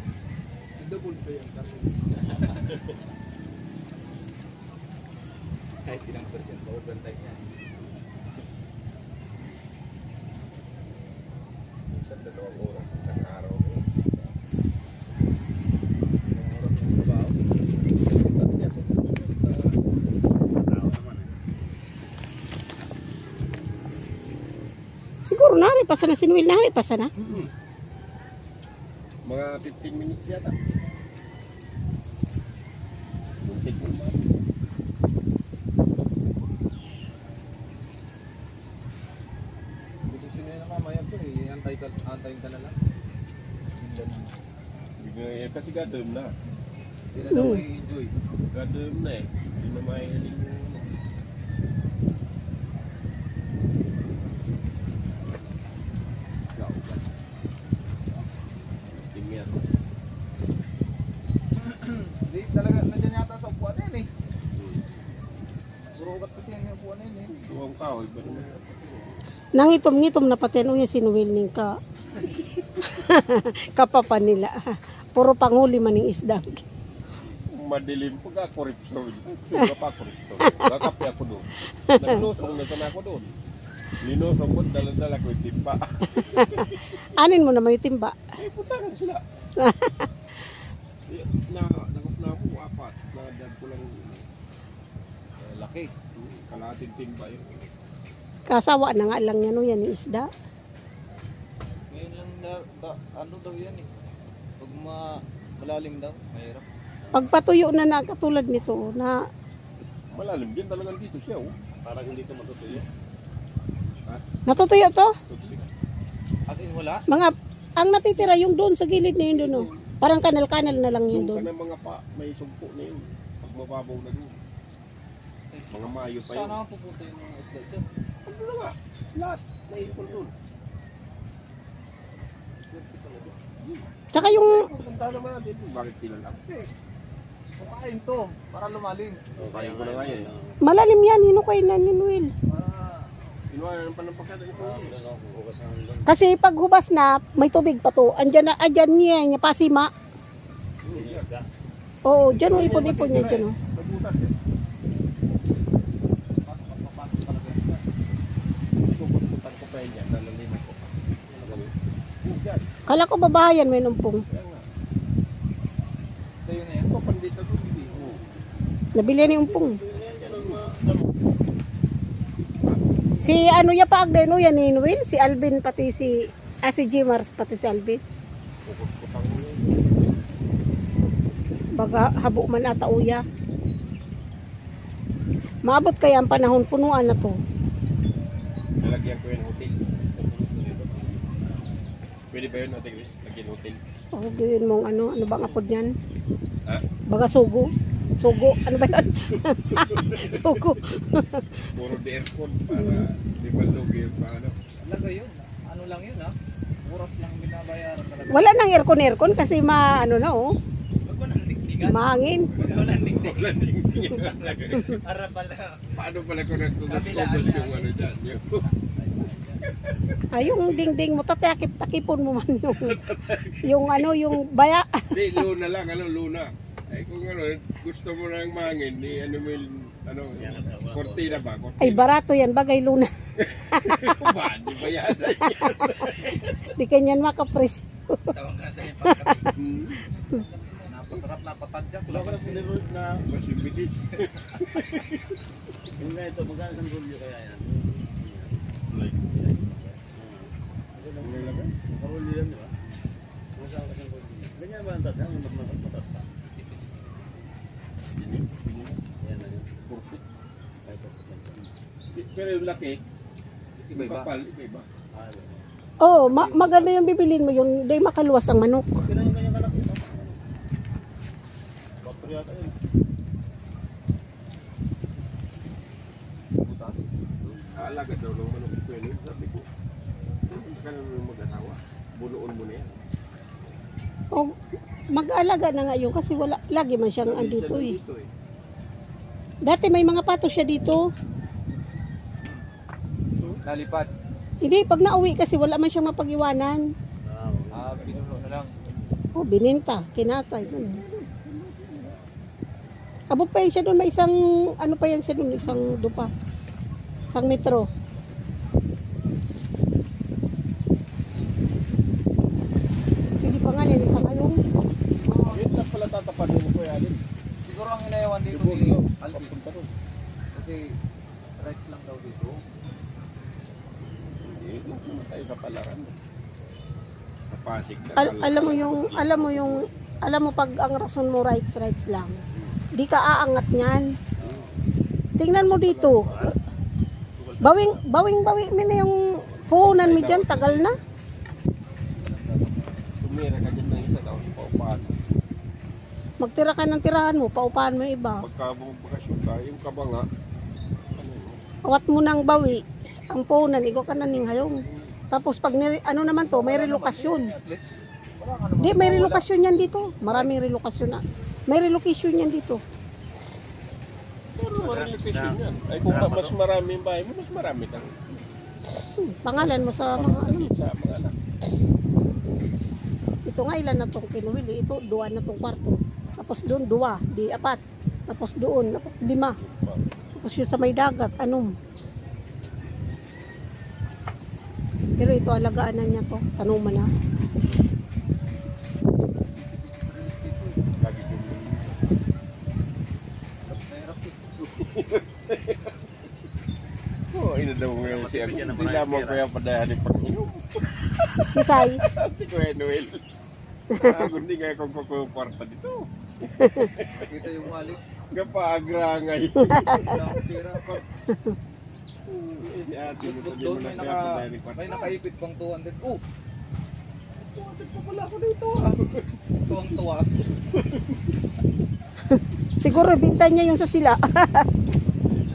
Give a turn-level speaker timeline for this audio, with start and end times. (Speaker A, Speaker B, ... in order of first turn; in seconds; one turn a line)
Speaker A: 0.8-2.9
Speaker A: 5.8-7.5
Speaker B: 11.9-14.3
Speaker A: 16.3-17.4
Speaker B: 18.3-19.7
Speaker C: 20.6-21.5
Speaker D: 25.2-27.1
Speaker B: 27.2-27.5
Speaker B: 29.2-30.6
Speaker B: 33.4-34.4
Speaker A: 40.0-42.8
Speaker A: 43.8-44.4
Speaker B: 45.0-46.3
Speaker A: 47.1-48.1
Speaker D: 47.3-47.6
Speaker B: 48.5-50.9
Speaker B: 56.6-57.0
Speaker B: 58.9-59.7
Speaker A: 61.5-64.1
Speaker B: 64.6-64.9
Speaker A: 66.0-67.3
Speaker B: 67.3-68.7
Speaker D: 69.6-71.7
Speaker D: 72.8-76.6
Speaker B: 77.5-83.3
Speaker D: 80.5-80.7
Speaker D: 81.9-82.2
Speaker B: 84.0-87.0
Speaker D: 86.2-88.2
Speaker B: 88.4-89.2
Speaker D: 89.6-90.4
Speaker B: 91.1-94.3
Speaker A: 95.4-95.9
Speaker B: 96.2-97.7
Speaker D: 98.5-100.3
Speaker A: 101.9-103.9
Speaker A: 104.6-106.7
Speaker C: 107.0-107.3
Speaker D: 107.1-109.2
Speaker B: 110.1-111.5
Speaker C: 111.8-112.9
Speaker D: 114.5-115.2
Speaker B: 115.3-115.7
Speaker A: 116.5-117.0
Speaker D: 117.1-121.5
Speaker B: 119.2-119.8
Speaker B: 121.1-124.4
Speaker A: 125.5-127.9
Speaker B: 125.7-126.6
Speaker B: 128.2-130.3
Speaker A: 132.7-133.3
Speaker B: 133.6-136.7
Speaker D: 134.1-134.7
Speaker A: 137.6-139.2
Speaker C: 139.4-140.6
Speaker B: 139.4-140.3
Speaker D: 140.6-142.3
Speaker A: 142.5-143.3
Speaker B: 143.5-144.9
Speaker C: 144.6-146.1
Speaker D: 146.1-149.9
Speaker B: 150.8-151.2
Speaker C: 150.9-151.5
Speaker D: 152.1-153.6
Speaker B: 152.4-154.3
Speaker A: 156.4-157.9
Speaker B: 158.8-160.9
Speaker C: 161.3-161.7
Speaker A: 161.3-161.7
Speaker B: 162.2-162.7
Speaker D: 162.9-164.2
Speaker B: 164.3-164.7
Speaker A: 166.4-166.9
Speaker B: 166.8-168.2
Speaker D: 169.0-169.8
Speaker C: 169.6-171.2
Speaker B: 170.2-170.7
Speaker D: 173.2-178.0
Speaker B: 178.7-180.0
Speaker D: 181.8-183.2
Speaker D: 185.7-187.4
Speaker B: 188.8-189.7
Speaker C: 190.1-191.7
Speaker B: 192.3-193.8
Speaker D: 194.1-195.9
Speaker D: 197.1-201.4
Speaker B: 198.8-200.8
Speaker B: 201.7-204.6
Speaker D: 202.7-203.0
Speaker A: 204.8-208.7
Speaker D: 208.3-210.4
Speaker A: 211.0-216.0
Speaker D: 211.9-212.5
Speaker B: 212.5-214.9
Speaker B: 215.9-218.7
Speaker A: 216.8-217.9
Speaker C: 219.0-219.6
Speaker B: 219.8-220.9
Speaker D: 220.3-223.0
Speaker B: 222.8-224.3
Speaker D: 223.6-225.4
Speaker B: 225.1-232.1
Speaker C: 230.3-231.4
Speaker D: 231.8-233.1
Speaker B: 233.4-236.7
Speaker D: 233.7-234.3
Speaker D: 235.4-238.3
Speaker A: 238.3-242.7
Speaker D: 239.0-239.4
Speaker B: 239.6-240.1
Speaker C: 242.1-243.3
Speaker B: 243.3-245.3
Speaker C: 246.0-252.8
Speaker B: 248.9-249.2
Speaker B: 251.2-251.7
Speaker C: 253.5-256.3
Speaker A: 256.6-257.2
Speaker B: 258.1-259.0
Speaker C: 259.2-259.7
Speaker B: 259.9-260.2
Speaker C: 260.9-261.7
Speaker B: 262.1-263.0
Speaker A: 263.8-264.3
Speaker B: 263.9-264.9
Speaker C: 265.1-265.6
Speaker D: 266.0-269.1
Speaker A: 266.1-267.0
Speaker C: 269.0-270.4
Speaker C: 272.0-272.8
Speaker A: 276.6-277.1
Speaker B: 277.8-279.7
Speaker B: 280.5-283.0
Speaker D: 285.1-288.0
Speaker B: 287.3-288.3
Speaker D: 289.6-291.0
Speaker A: 293.6-294.1
Speaker D: 294.6-296.9
Speaker C: 297.2-298.0
Speaker A: 297.7-298.7
Speaker D: 299.4-301.0
Speaker B: 300.6-302.1
Speaker D: 303.3-306.3
Speaker D: 307.3-307.9
Speaker D: 313.4-314.6
Speaker A: 315.2-315.8
Speaker B: 315.5-317.2
Speaker A: 317.6-319.5
Speaker B: 318.5-319.9
Speaker A: 320.5-320.8
Speaker A: 321.6-322.6
Speaker B: 324.4-326.1
Speaker B: 327.5-329.9
Speaker D: 328.2-332.4
Speaker D: 332.9-334.1
Speaker C: 334.4-334.8
Speaker D: 335.4-336.5
Speaker B: 335.6-336.6
Speaker D: 337.6-341.0
Speaker B: 339.9-341.0
Speaker A: 342.1-343.1
Speaker B: 343.2-345.1
Speaker D: 346.4-348.5
Speaker B: 348.4-350.2
Speaker B: 351.1-351.6
Speaker D: 351.9-357.5
Speaker A: 356.4-359.5
Speaker D: 358.8-362.8
Speaker A: 360.2-360.6
Speaker B: 364.6-368.4
Speaker C: 364.8-366.6
Speaker D: 369.2-370.7
Speaker B: 369.6-371.4
Speaker D: 373.5-379.6
Speaker B: 379.6-380.0
Speaker D: 380.4-381.7
Speaker D: 385.2-387.1
Speaker A: 389.6-390.8
Speaker B: 391.0-392.1
Speaker A: 393.7-394.4
Speaker B: 394.6-396.0
Speaker B: 397.3-403.2
Speaker C: 398.0-399.4
Speaker D: 401.5-402.0
Speaker B: 403.9-407.3
Speaker D: 406.6-406.9
Speaker A: 407.2-408.0
Speaker B: 408.3-410.4
Speaker D: 409.7-410.1
Speaker A: 410.1-411.0
Speaker B: 412.3-415.2
Speaker A: 413.2-416.2
Speaker A: 417.4-419.0
Speaker A: 419.6-420.5
Speaker B: 420.8-421.1
Speaker D: 422.3-424.7